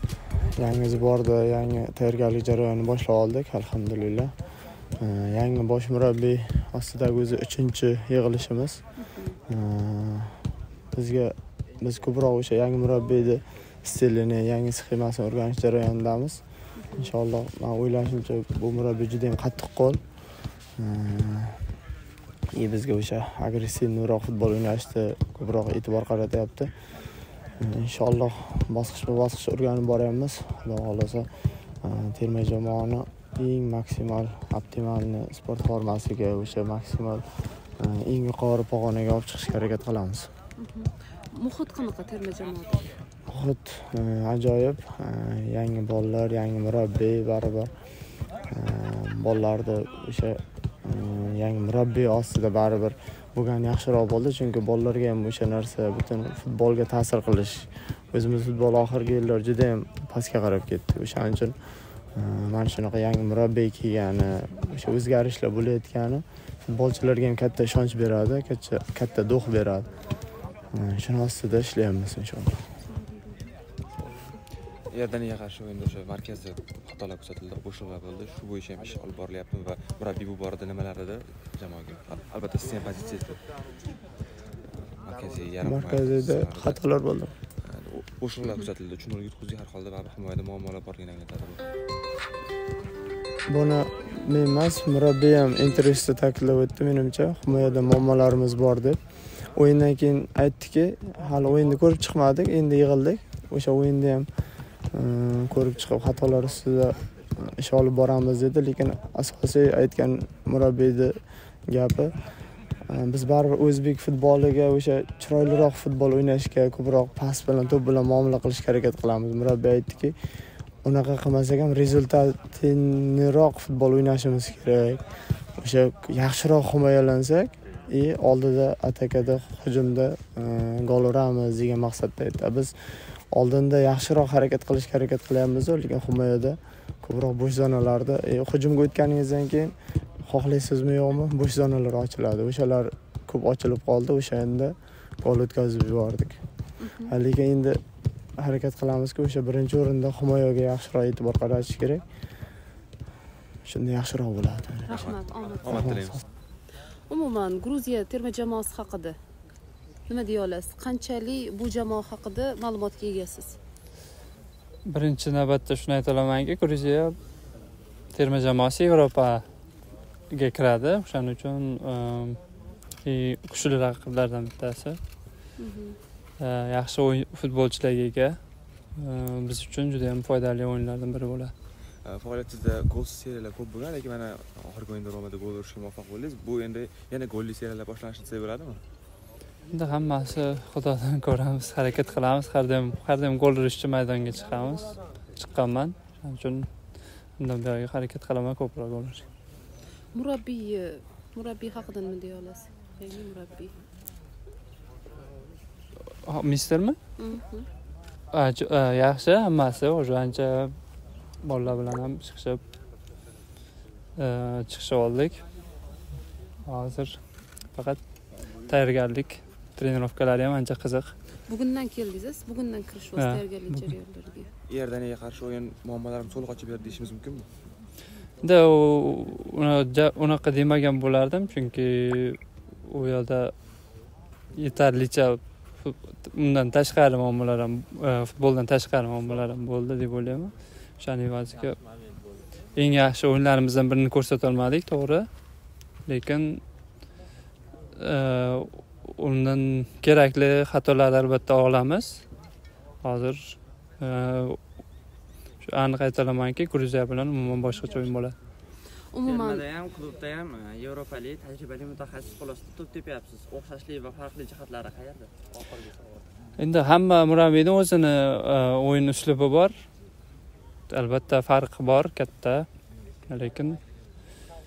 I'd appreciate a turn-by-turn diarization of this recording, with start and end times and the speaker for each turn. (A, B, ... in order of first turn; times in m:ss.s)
0:00.5-0:04.3 A
0:05.0-0:08.8 A
0:09.0-0:09.3 B
0:09.4-0:16.4 A
0:16.8-0:17.1 B
0:16.9-0:20.0 A
0:20.8-0:21.7 A
0:22.5-0:26.7 A
0:27.6-0:31.3 A
0:31.8-0:40.3 A
0:40.6-0:43.0 B
0:43.3-0:47.7 A
0:48.5-1:01.5 A
1:02.1-1:09.9 A
1:10.7-1:12.6 A
1:12.8-1:13.4 B
1:14.9-1:23.4 C
1:25.0-1:26.8 C
1:25.6-1:27.3 A
1:27.6-1:31.6 C
1:33.5-1:39.0 A
1:39.5-1:44.3 A
1:44.9-1:52.1 A
1:52.9-2:00.1 A
2:00.8-2:05.0 A
2:05.6-2:19.7 A
2:20.2-2:26.4 A
2:26.8-2:27.1 B
2:27.0-2:27.8 A
2:28.4-2:32.0 A
2:33.6-2:35.1 A
2:34.8-2:35.9 B
2:34.9-2:36.2 C
2:35.6-2:36.2 A
2:36.9-2:39.2 B
2:40.1-2:43.6 B
2:44.8-2:47.2 D
2:48.1-2:49.4 D
2:50.3-2:52.4 D
2:53.0-2:55.0 D
2:55.6-2:56.0 B
2:56.4-2:58.4 D
2:58.9-3:01.5 D
3:02.0-3:08.8 C
3:09.7-3:16.7 D
3:17.4-3:19.2 D
3:20.1-3:23.7 B
3:26.2-3:27.0 D
3:27.2-3:27.7 B
3:28.3-3:30.8 D
3:31.4-3:32.6 D
3:34.2-3:35.4 D
3:36.6-3:37.2 D
3:37.7-3:38.0 D
3:38.6-3:41.1 D
3:41.5-3:44.5 B
3:43.2-3:43.9 D
3:44.7-3:47.5 C
3:48.4-3:53.5 D
3:54.5-4:01.8 D
4:02.7-4:05.3 D
4:06.0-4:06.6 D
4:08.0-4:12.2 D
4:13.0-4:14.6 D
4:15.6-4:18.3 D
4:19.1-4:19.6 B
4:19.2-4:26.0 E
4:26.6-4:29.8 D
4:30.9-4:32.7 D
4:33.2-4:33.8 D